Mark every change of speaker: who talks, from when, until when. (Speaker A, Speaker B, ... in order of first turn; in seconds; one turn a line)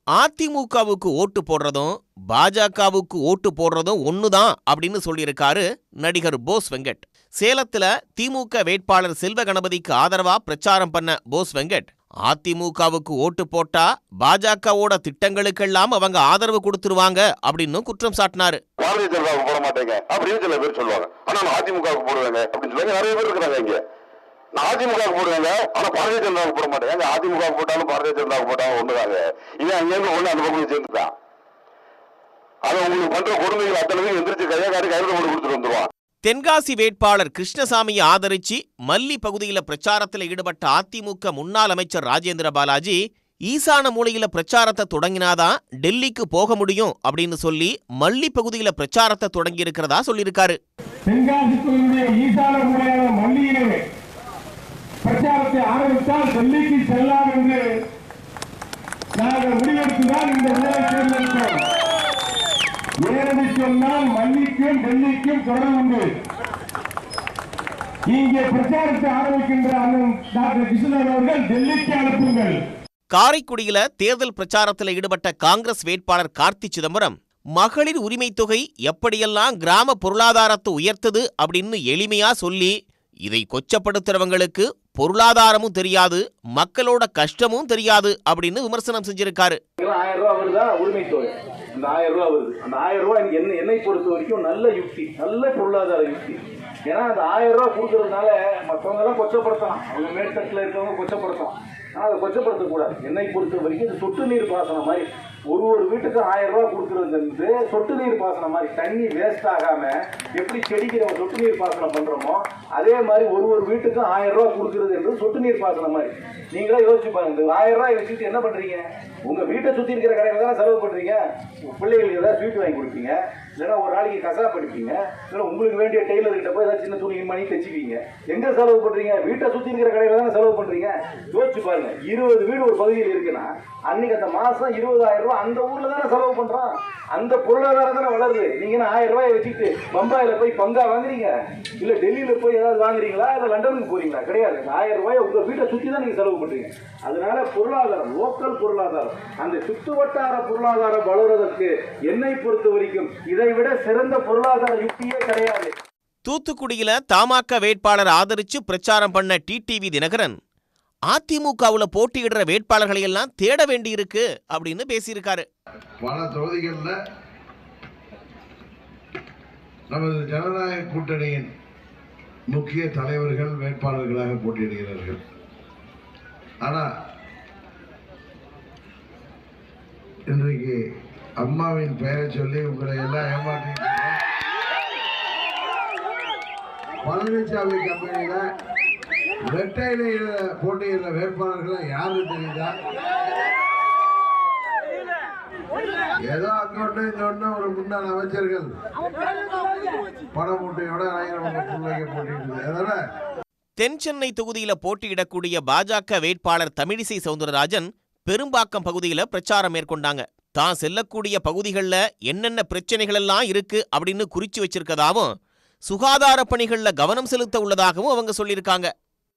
Speaker A: 0.1-18.6
Speaker B: 18.8-23.8
Speaker B: 24.5-31.1
Speaker B: 32.6-35.9
Speaker A: 36.2-50.6
Speaker C: 51.1-53.8
Speaker C: 55.0-57.6
Speaker C: 59.1-61.6
Speaker C: 63.0-66.0
Speaker C: 68.1-72.5
Speaker A: 73.1-89.6
Speaker D: 89.8-155.7
Speaker A: 156.2-160.4
Speaker A: 161.1-165.4
Speaker B: 166.1-166.9
Speaker E: 166.1-166.9
Speaker B: 169.9-170.3
Speaker E: 170.0-171.4
Speaker B: 172.5-172.9
Speaker E: 172.5-175.2
Speaker E: 180.3-180.6
Speaker E: 181.5-183.9
Speaker B: 183.0-184.1
Speaker B: 187.1-188.3
Speaker E: 187.2-188.3
Speaker B: 189.5-190.1
Speaker E: 189.8-190.1
Speaker E: 190.7-192.6
Speaker B: 191.4-192.5
Speaker B: 196.3-198.6
Speaker E: 196.4-198.4
Speaker B: 200.4-202.9
Speaker E: 200.6-202.9
Speaker A: 203.8-215.3
Speaker A: 215.9-218.9